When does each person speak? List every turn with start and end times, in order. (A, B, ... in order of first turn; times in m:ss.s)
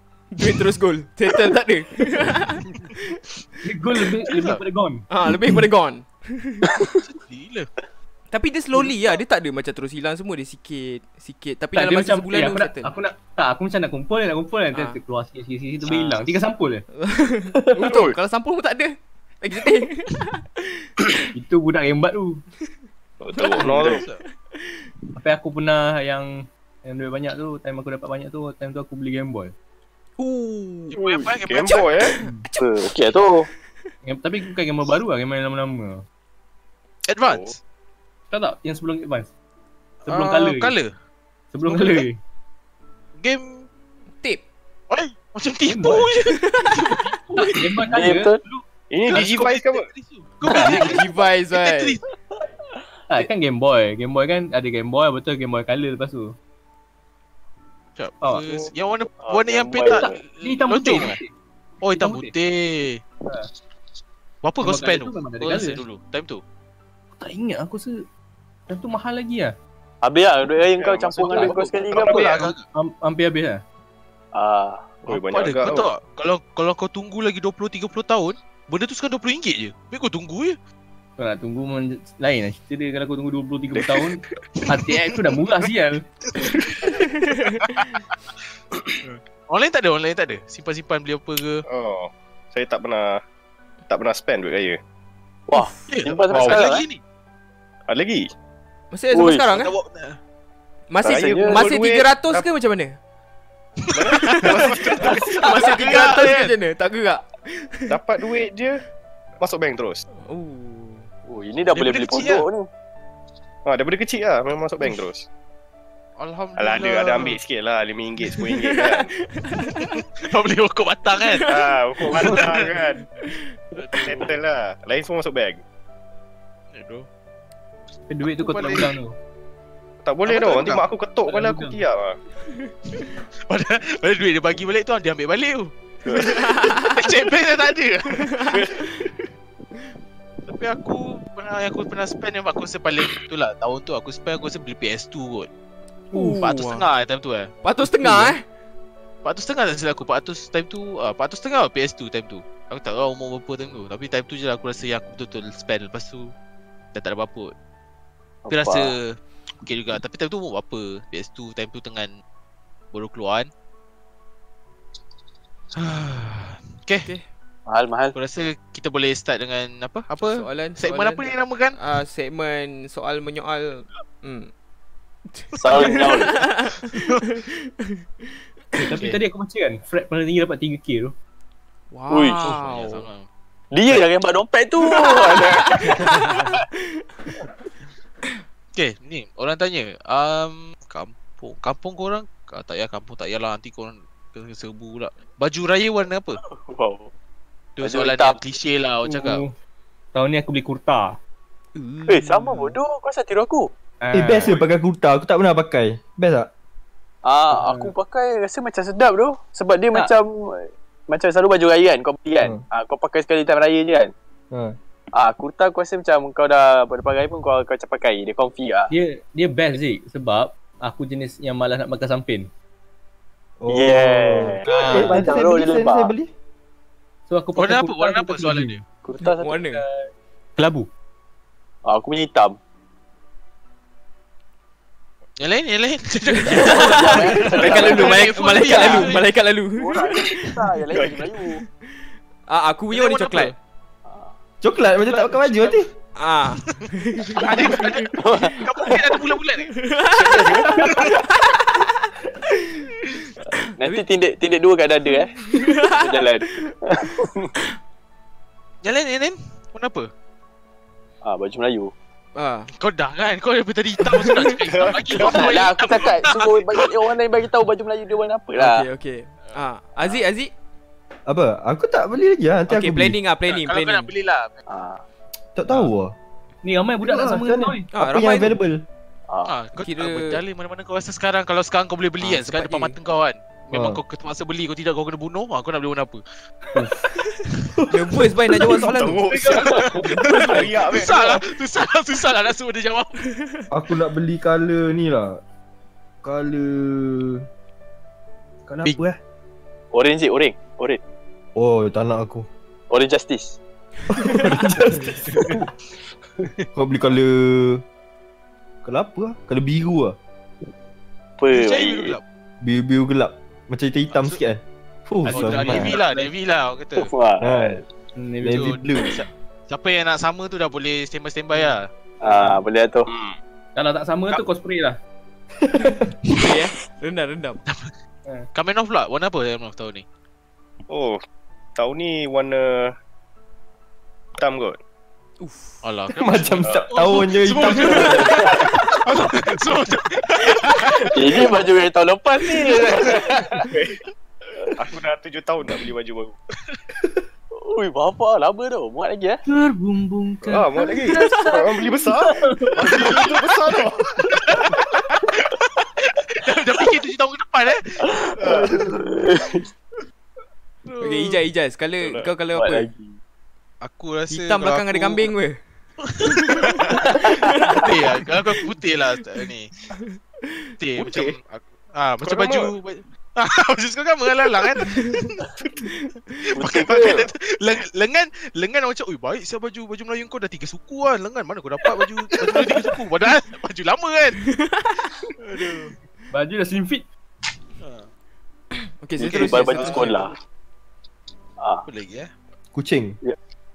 0:00.3-0:03.2 A
0:03.6-0:05.1 B
0:04.3-0:04.6 C
0:05.1-0:06.7 A
0:07.0-0:07.7 C
0:08.3-0:12.9 A
0:11.8-0:16.8 B
0:14.7-0:15.0 A
0:16.9-0:20.7 A
0:21.3-0:22.4 B
0:23.2-0:24.0 D
0:23.4-0:23.9 A
0:23.6-0:24.0 E
0:23.6-0:24.2 C
0:25.2-0:29.5 B
0:30.2-0:31.0 A
0:30.9-0:32.1 C
0:31.4-0:32.2 D
0:32.2-0:32.7 A
0:32.2-0:32.4 B
0:32.6-0:33.5 E
0:34.0-0:36.0 B
0:37.1-0:37.6 C
0:37.3-0:37.5 D
0:38.3-0:39.3 B
0:40.0-0:40.9 C
0:40.1-0:40.7 B
0:41.5-0:42.2 B
0:41.7-0:42.1 C
0:43.2-0:43.7 C
0:44.9-0:47.2 C
0:45.7-0:46.1 B
0:46.3-0:46.8 A
0:47.3-0:48.6 B
0:47.3-0:47.8 A
0:47.9-0:48.4 E
0:48.9-0:49.9 D
0:49.1-0:52.0 C
0:50.4-0:52.0 A
0:53.1-0:56.4 B
0:58.0-1:01.2 C
0:59.2-1:00.0 D
0:59.5-1:00.2 E
1:00.4-1:01.3 B
1:01.8-1:03.0 C
1:02.0-1:02.3 B
1:04.4-1:06.4 C
1:04.6-1:05.8 B
1:07.2-1:08.0 B
1:08.7-1:09.6 B
1:10.0-1:12.5 E
1:10.6-1:12.5 D
1:11.3-1:12.6 C
1:12.7-1:13.6 B
1:14.3-1:15.0 E
1:15.0-1:15.9 D
1:15.1-1:20.6 C
1:21.2-1:26.0 B
1:23.7-1:24.1 D
1:26.5-1:26.9 D
1:26.9-1:28.0 A
1:27.6-1:27.9 C
1:29.0-1:31.6 C
1:31.7-1:33.2 D
1:33.9-1:34.8 D
1:35.5-1:36.8 E
1:35.9-1:37.0 C
1:37.9-1:38.3 D
1:38.9-1:39.7 A
1:39.1-1:39.5 E
1:39.6-1:40.2 C
1:40.9-1:43.0 A
1:41.0-1:42.5 D
1:41.1-1:41.7 E
1:43.9-1:45.5 D
1:44.0-1:46.5 C
1:44.4-1:48.0 A
1:47.9-1:48.8 D
1:49.4-1:50.0 D
1:50.2-1:51.1 A
1:51.3-1:52.7 E
1:51.7-1:52.4 C
1:53.7-1:55.3 D
1:56.2-1:57.4 C
1:56.6-1:59.1 D
1:58.8-2:00.0 A
1:59.7-2:02.7 C
2:01.2-2:01.6 A
2:01.5-2:03.0 D
2:03.8-2:04.3 C
2:03.9-2:05.6 D
2:06.7-2:07.1 C
2:08.1-2:09.2 B
2:08.2-2:08.9 C
2:10.0-2:12.2 D
2:10.3-2:10.8 C
2:11.2-2:11.8 B
2:12.5-2:13.2 A
2:13.5-2:18.5 C
2:16.1-2:16.4 D
2:16.2-2:17.1 A
2:18.2-2:19.1 A
2:18.5-2:18.9 D
2:20.5-2:25.5 C
2:26.1-2:26.9 A
2:26.2-2:27.5 C
2:27.6-2:28.4 A
2:29.2-2:36.3 C
2:36.9-2:37.5 C
2:38.4-2:39.0 E
2:38.5-2:42.1 C
2:42.9-2:43.5 C
2:45.8-2:47.1 C
2:47.7-2:48.2 E
2:48.2-2:51.8 C
2:50.2-2:54.5 A
2:55.3-2:58.0 A
2:55.5-2:56.4 E
2:56.9-2:57.2 C
2:58.8-3:01.1 B
3:01.9-3:03.1 A
3:02.1-3:02.5 E
3:02.4-3:03.3 C
3:03.7-3:06.1 E
3:04.9-3:07.0 A
3:08.8-3:16.4 C
3:16.4-3:17.1 E
3:17.8-3:19.4 C
3:17.8-3:18.4 E
3:19.0-3:19.5 B
3:20.1-3:21.2 B
3:21.8-3:22.8 A
3:22.1-3:23.7 E
3:24.0-3:24.6 B
3:24.1-3:26.5 F
3:27.2-3:34.1 E
3:27.5-3:27.9 B
3:34.5-3:34.8 F
3:35.1-3:38.9 E
3:38.9-3:42.5 B
3:43.6-3:46.3 F
3:43.7-3:46.1 E
3:44.7-3:45.4 B
3:47.3-3:48.8 B
3:47.6-3:48.8 C
3:49.0-3:50.1 E
3:49.2-3:49.8 A
3:50.6-3:50.9 B
3:51.8-3:52.6 E
3:55.4-3:59.3 C
3:56.3-4:00.6 A
3:56.5-3:59.1 E
3:59.7-4:01.6 E
4:00.9-4:01.2 D
4:02.0-4:03.6 A
4:02.9-4:03.5 C
4:04.1-4:04.3 E
4:04.6-4:05.9 F
4:05.1-4:05.8 C
4:06.2-4:09.0 A
4:06.7-4:09.7 C
4:08.2-4:08.7 E
4:09.7-4:12.8 A
4:10.2-4:11.1 D
4:10.8-4:11.1 C
4:13.5-4:14.0 A
4:13.8-4:17.5 E
4:15.1-4:16.8 A
4:18.8-4:20.1 C
4:21.2-4:21.9 E
4:22.4-4:22.7 A
4:22.7-4:27.0 C
4:24.1-4:24.5 A
4:24.7-4:25.5 D
4:25.2-4:28.9 E
4:28.6-4:30.5 A
4:31.3-4:33.2 F
4:32.7-4:34.1 A
4:33.5-4:34.6 C
4:34.7-4:35.0 E
4:35.6-4:36.1 F
4:36.6-4:37.8 B
4:37.0-4:38.8 F
4:37.9-4:38.6 A
4:39.3-4:39.6 E
4:39.5-4:46.2 C
4:39.8-4:40.4 A
4:42.2-4:43.0 A
4:43.7-4:44.0 F
4:47.9-4:49.6 A
4:48.6-4:48.9 F
4:48.9-4:51.4 D
4:49.4-4:53.2 C
4:53.3-4:53.6 A
4:53.7-4:55.4 F
4:56.2-4:57.5 F
4:58.7-4:59.2 F
4:59.9-5:01.0 E
5:01.6-5:02.5 F
5:02.9-5:03.6 E
5:04.1-5:05.5 F
5:04.1-5:04.6 A
5:04.8-5:05.6 E
5:06.8-5:07.8 F
5:08.8-5:10.2 F
5:11.4-5:12.2 E
5:11.5-5:12.2 C
5:12.6-5:16.0 F
5:14.1-5:14.4 C
5:15.2-5:16.3 B
5:15.3-5:17.1 C
5:17.0-5:17.8 E
5:17.4-5:17.8 F
5:18.2-5:18.9 B
5:18.4-5:19.2 F
5:18.5-5:21.9 C
5:22.2-5:23.1 E
5:23.1-5:23.4 D
5:23.8-5:25.0 B
5:25.8-5:27.6 A
5:25.8-5:26.2 F
5:28.5-5:30.0 C
5:30.9-5:31.2 D
5:31.8-5:32.9 D
5:34.4-5:34.8 D
5:35.4-5:35.8 A
5:35.8-5:41.5 C
5:36.2-5:38.4 F
5:37.9-5:38.5 A
5:38.0-5:38.7 D
5:38.0-5:38.5 E
5:41.1-5:43.7 E
5:42.4-5:43.3 C
5:43.7-5:44.0 D
5:44.8-5:46.4 D
5:47.5-5:49.4 E
5:49.5-5:53.0 B
5:50.4-5:54.4 D
5:51.1-5:51.4 A
5:52.9-5:58.0 C
5:58.0-5:59.7 E
5:58.4-5:59.0 D
6:00.9-6:01.4 C
6:01.0-6:02.9 A
6:02.0-6:02.3 D
6:02.6-6:03.2 E
6:03.8-6:05.3 C
6:04.3-6:05.6 A
6:06.1-6:09.7 C
6:06.2-6:08.0 A
6:07.1-6:07.4 E
6:10.8-6:15.4 C
6:11.0-6:11.4 D
6:12.2-6:12.7 D
6:14.8-6:15.2 A
6:16.6-6:17.3 E
6:16.6-6:24.4 C
6:24.5-6:25.1 A
6:25.4-6:26.0 C
6:26.3-6:27.0 B
6:27.8-6:28.1 C
6:29.0-6:30.3 A
6:29.2-6:30.4 E
6:29.8-6:30.1 C
6:31.6-6:31.9 E
6:31.9-6:32.3 C
6:32.7-6:33.2 F